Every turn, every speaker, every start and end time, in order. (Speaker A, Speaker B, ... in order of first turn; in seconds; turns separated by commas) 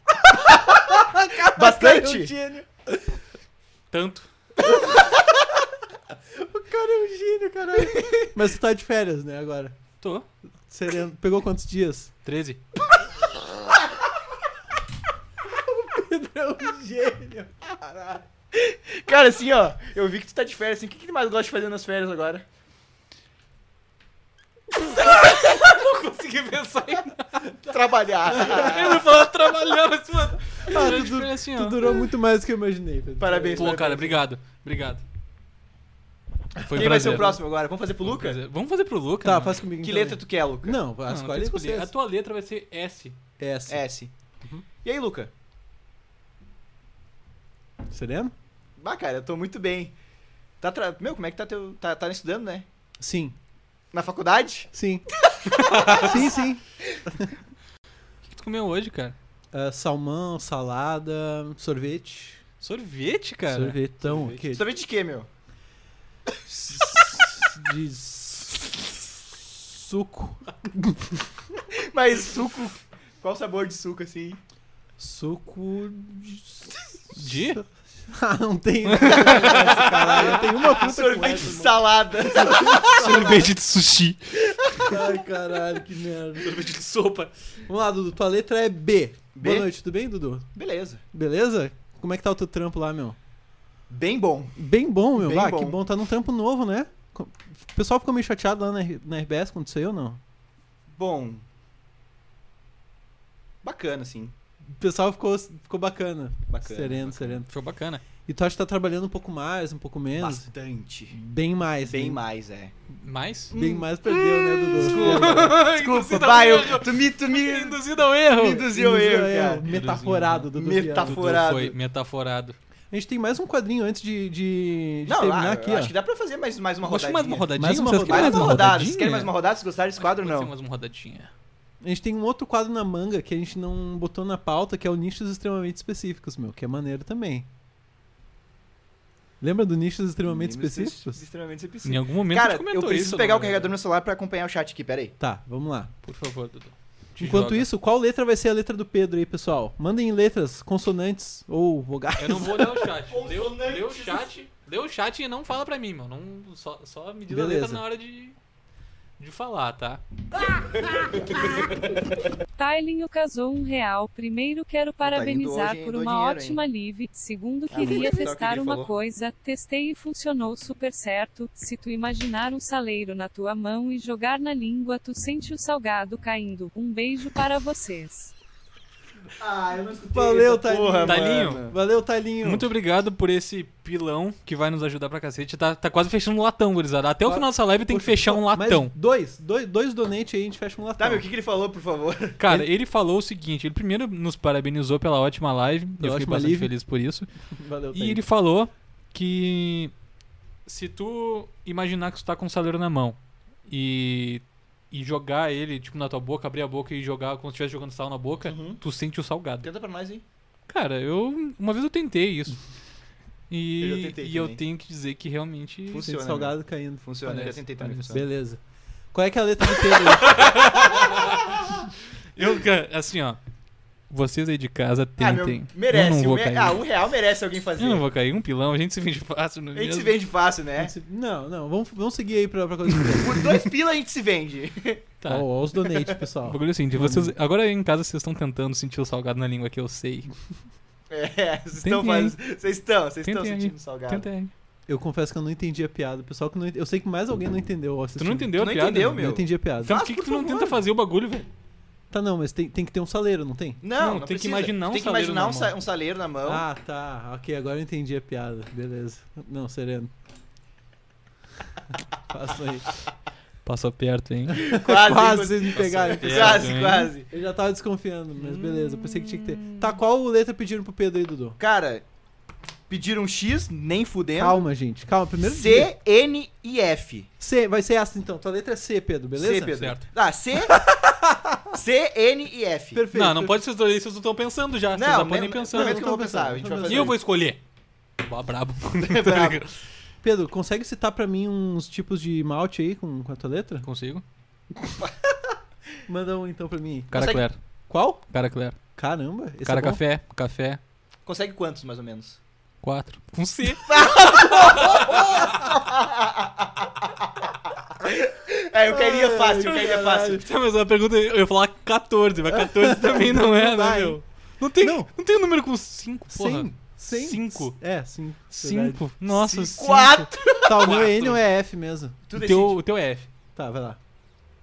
Speaker A: 0.2-3.1, Speaker B: 1.5-2.3, Speaker C: 3.9-4.3, Speaker A: 4.7-5.0, Speaker A: 6.3-9.8, Speaker B: 8.0-8.3, Speaker C: 10.0-10.2, Speaker A: 10.7-12.1, Speaker C: 12.2-12.6, Speaker A: 15.5-18.2, Speaker B: 18.5-22.4, Speaker C: 24.9-27.5, Speaker B: 27.7-29.0, Speaker C: 28.3-32.0, Speaker A: 30.7-33.8, Speaker B: 33.2-34.2, Speaker C: 33.5-35.0, Speaker A: 36.6-37.3, Speaker C: 36.6-37.4, Speaker B: 36.7-38.4, Speaker C: 38.0-39.6, Speaker A: 39.2-41.9, Speaker B: 39.8-40.8, Speaker C: 41.1-43.2, Speaker A: 43.4-43.8, Speaker B: 43.7-44.1, Speaker B: 44.8-45.3, Speaker A: 47.9-48.3, Speaker B: 48.8-49.9, Speaker B: 50.6-52.7, Speaker A: 53.0-53.4, Speaker B: 53.9-54.7, Speaker A: 54.7-55.1, Speaker C: 55.6-56.1, Speaker A: 55.7-57.3, Speaker B: 55.8-56.0, Speaker C: 58.3-59.1, Speaker A: 59.5-62.4, Speaker C: 62.6-63.8, Speaker A: 63.5-64.6, Speaker B: 64.0-65.3, Speaker A: 66.5-71.4, Speaker B: 71.7-74.4, Speaker A: 75.0-83.5, Speaker C: 77.1-77.6, Speaker C: 78.9-80.6, Speaker B: 79.1-83.3, Speaker C: 82.8-84.9, Speaker A: 84.8-86.7, Speaker C: 86.4-87.3, Speaker A: 87.7-90.5, Speaker B: 89.3-89.7, Speaker B: 90.5-91.0, Speaker A: 91.1-93.2, Speaker B: 93.9-94.6, Speaker A: 94.5-100.2, Speaker B: 95.1-95.8, Speaker B: 101.0-101.5, Speaker B: 103.6-104.3, Speaker A: 104.7-107.5, Speaker B: 106.5-107.4, Speaker C: 107.5-108.0, Speaker A: 108.3-110.5, Speaker B: 110.2-111.2, Speaker A: 111.1-112.2, Speaker B: 111.8-112.7, Speaker C: 113.0-113.5, Speaker B: 113.5-113.9, Speaker A: 113.5-115.6, Speaker C: 114.3-118.7, Speaker B: 114.8-117.8, Speaker B: 118.3-119.6, Speaker A: 118.6-121.5, Speaker C: 119.7-122.6, Speaker B: 120.5-121.7, Speaker A: 122.9-125.9, Speaker B: 125.0-127.5, Speaker C: 126.8-129.3, Speaker A: 127.5-128.8, Speaker B: 128.0-130.5, Speaker C: 130.0-131.3, Speaker A: 131.8-137.5, Speaker A: 139.4-141.2, Speaker B: 140.2-145.1, Speaker C: 141.8-143.7, Speaker A: 145.2-145.9, Speaker C: 146.0-147.7, Speaker A: 147.2-152.9, Speaker C: 152.2-158.3, Speaker B: 153.1-154.3, Speaker A: 157.3-157.8, Speaker C: 159.2-160.0, Speaker D: 162.6-178.3, Speaker B: 165.0-166.6, Speaker B: 167.7-168.9, Speaker B: 179.4-181.7, Speaker A: 180.1-182.7, Speaker C: 181.1-181.6, Speaker C: 182.4-188.9, Speaker A: 187.2-191.2, Speaker B: 191.0-192.4, Speaker C: 192.4-197.3, Speaker A: 196.0-196.7, Speaker A: 197.5-198.2, Speaker C: 197.9-199.9, Speaker C: 200.7-209.7, Speaker B: 208.4-208.8, Speaker B: 209.6-210.2, Speaker C: 210.7-212.6, Speaker C: 213.5-216.1, Speaker B: 213.8-214.6, Speaker B: 215.9-218.2, Speaker A: 215.9-218.6, Speaker C: 217.3-217.9, Speaker A: 219.1-221.1, Speaker C: 220.2-221.6, Speaker C: 222.3-223.4, Speaker C: 224.1-226.8, Speaker B: 225.2-228.0, Speaker C: 227.8-230.1, Speaker B: 229.7-230.9, Speaker A: 230.8-233.6, Speaker B: 233.2-235.1, Speaker A: 235.2-237.3, Speaker C: 236.4-240.3, Speaker B: 241.1-244.2, Speaker C: 241.8-242.4, Speaker C: 243.2-244.5, Speaker A: 244.9-250.0, Speaker C: 248.2-249.2, Speaker B: 248.6-250.8, Speaker C: 249.8-251.5, Speaker A: 252.1-253.8, Speaker B: 253.8-256.6, Speaker C: 254.0-255.8, Speaker A: 256.4-260.1, Speaker A: 262.3-262.9, Speaker C: 263.6-264.7, Speaker B: 264.6-267.3, Speaker A: 264.7-271.6, Speaker C: 265.7-267.1, Speaker C: 268.4-269.9, Speaker B: 271.6-272.0, Speaker B: 272.9-274.7, Speaker A: 274.4-275.9, Speaker B: 275.4-277.3, Speaker A: 277.4-279.7, Speaker B: 279.4-280.8, Speaker C: 279.7-280.0, Speaker A: 280.7-281.8, Speaker B: 281.7-283.0, Speaker A: 282.9-283.6, Speaker C: 283.1-286.1, Speaker B: 284.9-287.1, Speaker A: 285.7-287.2, Speaker C: 286.8-287.6, Speaker C: 288.2-289.7, Speaker B: 289.0-289.6, Speaker A: 290.2-293.9, Speaker C: 293.8-294.2, Speaker A: 294.8-295.5, Speaker A: 296.1-298.2, Speaker C: 297.1-297.6, Speaker B: 297.1-297.4, Speaker C: 298.3-298.8, Speaker A: 298.9-300.0, Speaker C: 299.6-300.8, Speaker B: 301.2-302.4, Speaker C: 302.8-305.4, Speaker B: 303.9-310.4, Speaker A: 308.9-310.4, Speaker C: 310.3-317.8, Speaker A: 312.7-314.2, Speaker A: 314.8-315.1, Speaker A: 316.3-319.0, Speaker C: 318.5-321.4, Speaker B: 319.3-321.0, Speaker A: 320.6-322.2, Speaker B: 322.3-322.8, Speaker C: 322.4-323.3, Speaker A: 323.6-324.0